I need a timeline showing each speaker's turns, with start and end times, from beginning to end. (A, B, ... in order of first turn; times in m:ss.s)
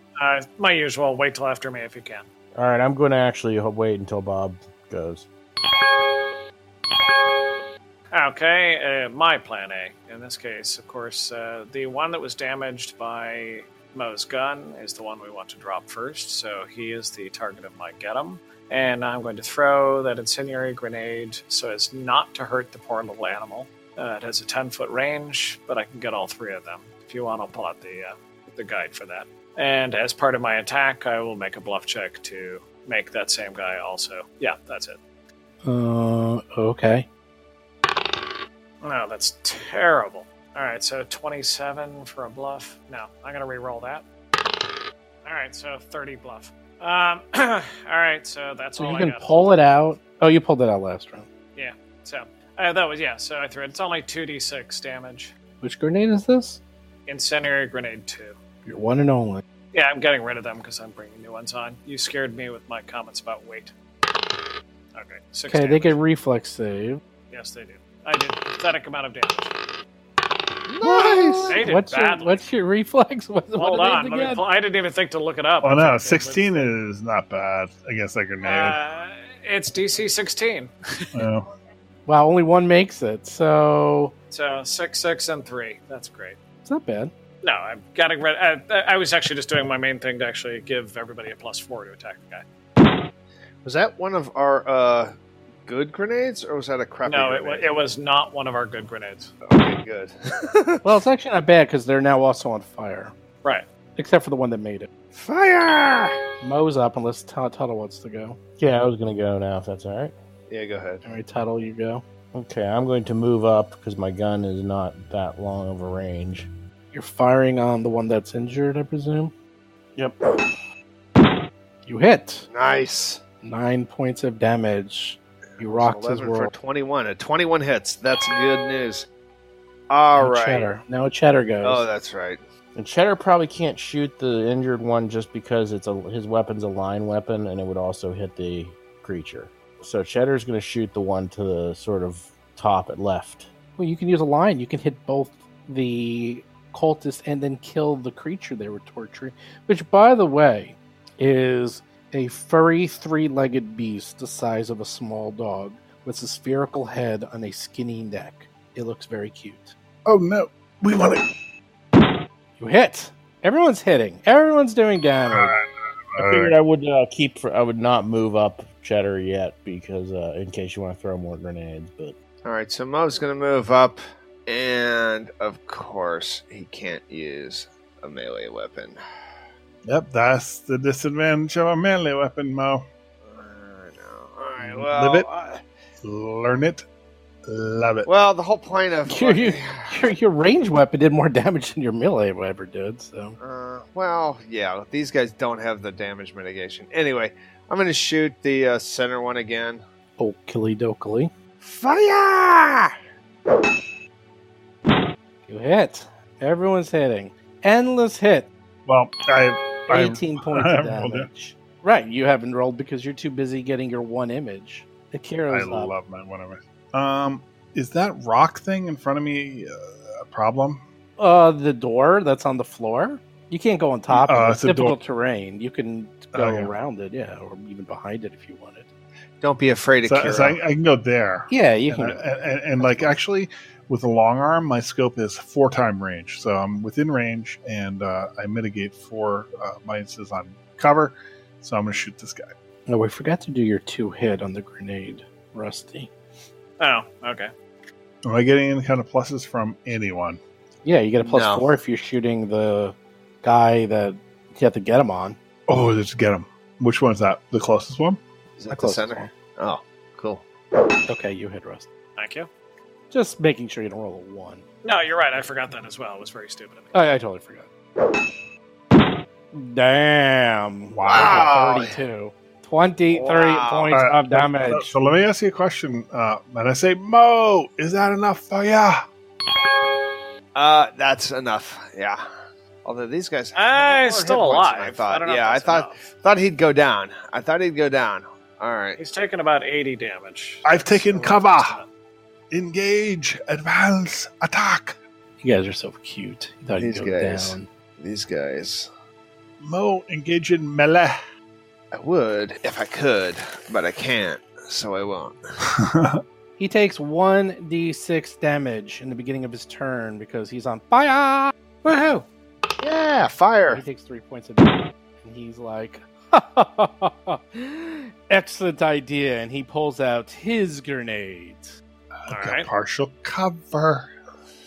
0:00.2-0:02.3 A
0:02.5-0:05.3 B
0:08.1-0:35.0 A
0:35.6-0:37.1 C
0:38.8-0:44.0 A
0:45.2-0:49.5 A
0:48.8-0:51.3 C
0:51.5-0:55.3 A
0:55.6-0:56.6 C
0:57.1-0:58.4 A
0:58.6-0:59.4 C
0:59.7-1:03.7 A
1:04.9-1:06.0 A
1:05.5-1:07.0 C
1:07.3-1:09.6 A
1:10.7-1:11.6 D
1:10.8-1:14.4 C
1:11.5-1:12.4 A
1:13.6-1:16.2 A
1:15.6-1:18.8 E
1:16.0-1:16.7 C
1:18.4-1:21.2 A
1:21.1-1:21.5 E
1:22.1-1:24.1 C
1:24.3-1:26.4 A
1:26.6-1:27.1 C
1:27.4-1:32.4 A
1:33.6-1:35.1 D
1:35.6-1:37.7 D
1:37.0-1:39.3 A
1:39.4-1:40.9 D
1:40.8-1:43.1 C
1:44.0-1:44.9 C
1:45.1-1:46.2 D
1:46.4-1:48.4 C
1:48.6-1:50.1 B
1:50.5-1:51.0 D
1:51.0-1:52.0 C
1:52.3-1:56.5 B
1:56.9-1:59.3 C
2:00.0-2:00.5 B
2:01.9-2:02.5 C
2:02.5-2:03.2 D
2:03.4-2:06.5 C
2:05.6-2:09.1 D
2:09.9-2:10.7 D
2:10.2-2:11.8 C
2:11.6-2:12.4 D
2:12.8-2:23.5 B
2:23.8-2:39.7 C
2:40.0-2:41.2 E
2:42.6-2:45.6 C
2:45.3-2:46.5 E
2:46.2-2:52.1 B
2:52.4-2:59.0 D
2:59.8-3:02.8 E
3:03.2-3:05.6 D
3:04.6-3:05.3 E
3:06.0-3:06.8 E
3:07.4-3:08.1 E
3:08.0-3:10.1 D
3:09.1-3:13.4 C
3:13.4-3:19.8 D
3:20.2-3:21.3 C
3:21.6-3:23.0 D
3:25.5-3:28.5 C
3:28.8-3:31.3 E
3:29.9-3:35.9 C
3:35.5-3:40.8 E
3:41.2-3:48.9 C
3:44.1-3:45.0 E
3:46.3-3:46.7 E
3:49.4-3:50.6 D
3:50.0-4:02.4 E
3:51.5-3:52.2 C
3:52.8-3:53.1 C
4:02.9-4:06.1 C
4:06.8-4:07.5 A
4:08.2-4:10.4 E
4:10.8-4:15.4 C
4:11.2-4:11.6 D
4:15.7-4:18.2 E
4:18.6-4:20.4 D
4:18.7-4:19.3 C
4:21.1-4:21.9 C
4:22.2-4:22.5 A
4:23.1-4:24.6 C
4:24.8-4:26.9 A
4:26.9-4:27.7 C
4:29.5-4:34.9 C
4:30.9-4:31.5 E
4:31.1-4:32.0 D
4:33.1-4:33.9 D
4:33.9-4:39.0 E
4:40.5-4:42.2 D
4:42.8-4:49.0 D
4:43.5-4:46.1 A
4:49.0-4:51.9 A
4:50.6-4:51.8 E
4:52.5-4:55.0 E
4:55.4-4:57.7 C
4:56.8-4:58.9 D
4:59.6-5:01.2 E
5:01.9-5:05.4 D
5:05.6-5:06.2 E
5:06.6-5:11.5 C
5:11.8-5:12.2 A
5:12.8-5:13.8 D
5:13.7-5:21.8 C
5:22.2-5:24.1 E
5:22.3-5:22.7 A